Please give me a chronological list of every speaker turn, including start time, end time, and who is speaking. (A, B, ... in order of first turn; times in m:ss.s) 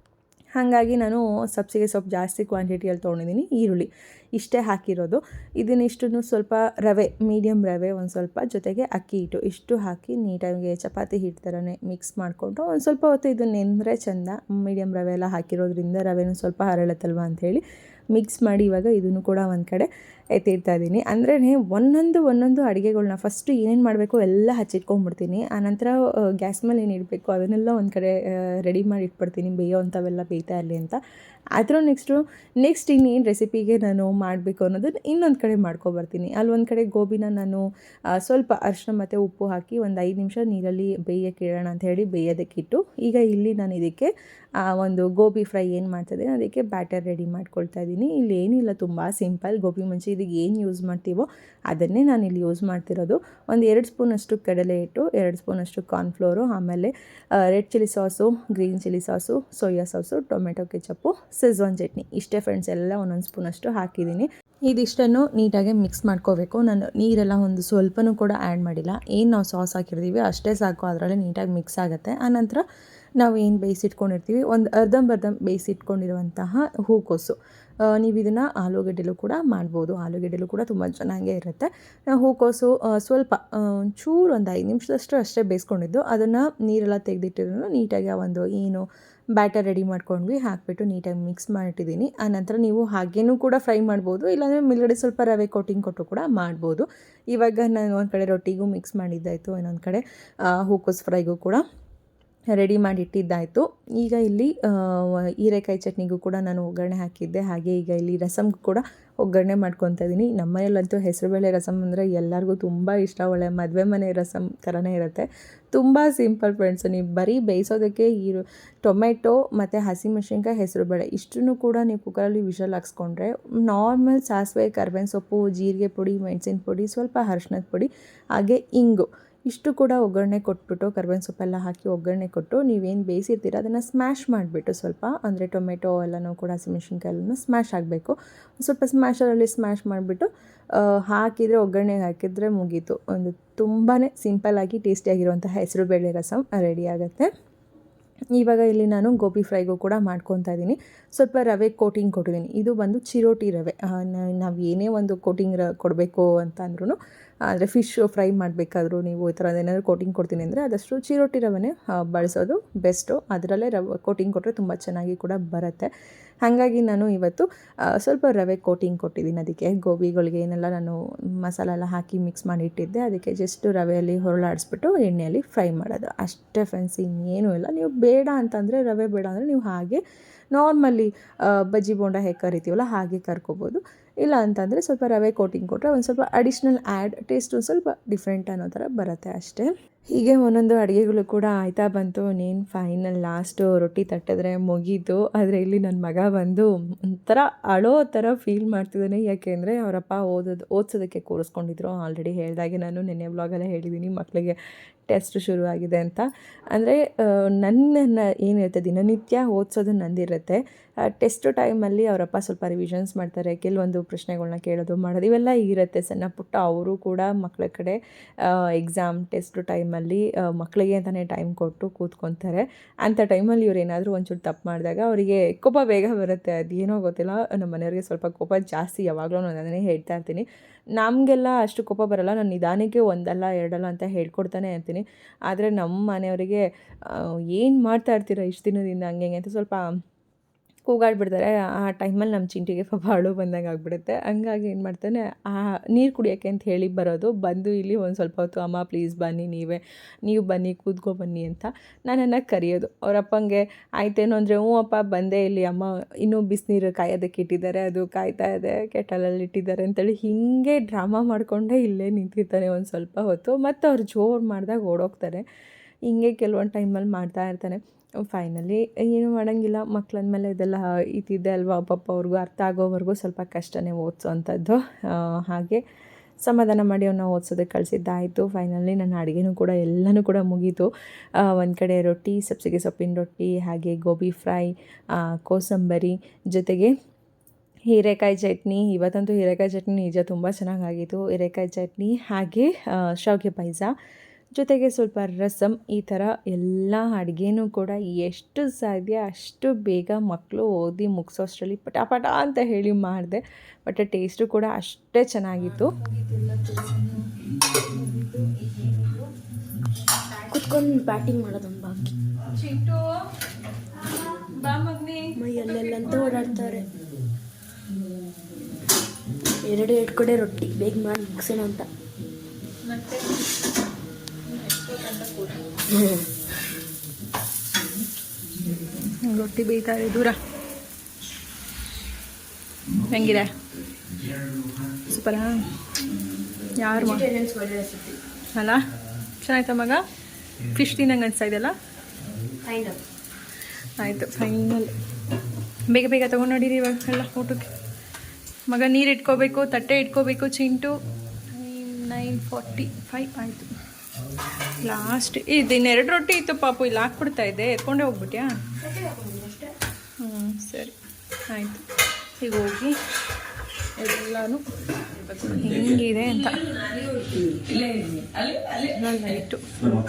0:00.5-0:31.0 A
0:31.6-0:37.6 A
0:38.2-0:44.1 A
0:44.6-1:12.6 A
1:13.2-1:41.6 A
1:42.5-2:27.3 A
2:28.4-2:37.0 A
2:37.5-2:45.9 A
2:46.4-3:00.0 A
3:00.5-3:24.5 A
3:25.1-3:50.4 A
3:51.0-3:59.9 A
4:00.9-4:25.4 A
4:26.1-4:35.8 A
4:36.4-4:40.9 A
4:41.4-4:46.9 A
4:47.9-4:53.9 A
4:54.5-5:05.9 A
5:05.7-5:09.3 B
5:10.5-5:12.1 C
5:12.5-5:13.1 B
5:14.4-5:16.6 B
5:15.4-5:16.9 C
5:19.6-5:21.9 C
5:22.8-5:23.4 B
5:24.4-5:25.7 B
5:25.9-5:26.3 C
5:29.2-5:30.4 B
5:33.1-5:33.5 B
5:35.1-5:35.7 B
5:36.8-5:37.3 B
5:37.0-5:38.2 C
5:38.5-5:38.8 B
5:39.4-5:40.0 B
5:40.7-5:41.7 B
5:42.6-5:43.0 C
5:44.0-5:44.9 B
5:45.9-5:47.6 B
5:48.7-5:50.9 B
5:51.5-5:53.7 B
5:54.8-5:58.6 B
5:58.8-5:59.7 C
6:00.2-6:00.9 B
6:01.5-6:01.8 B
6:02.4-6:02.9 B
6:04.0-6:04.6 B
6:05.2-6:06.7 B
6:07.7-6:08.2 B
6:08.8-6:09.6 B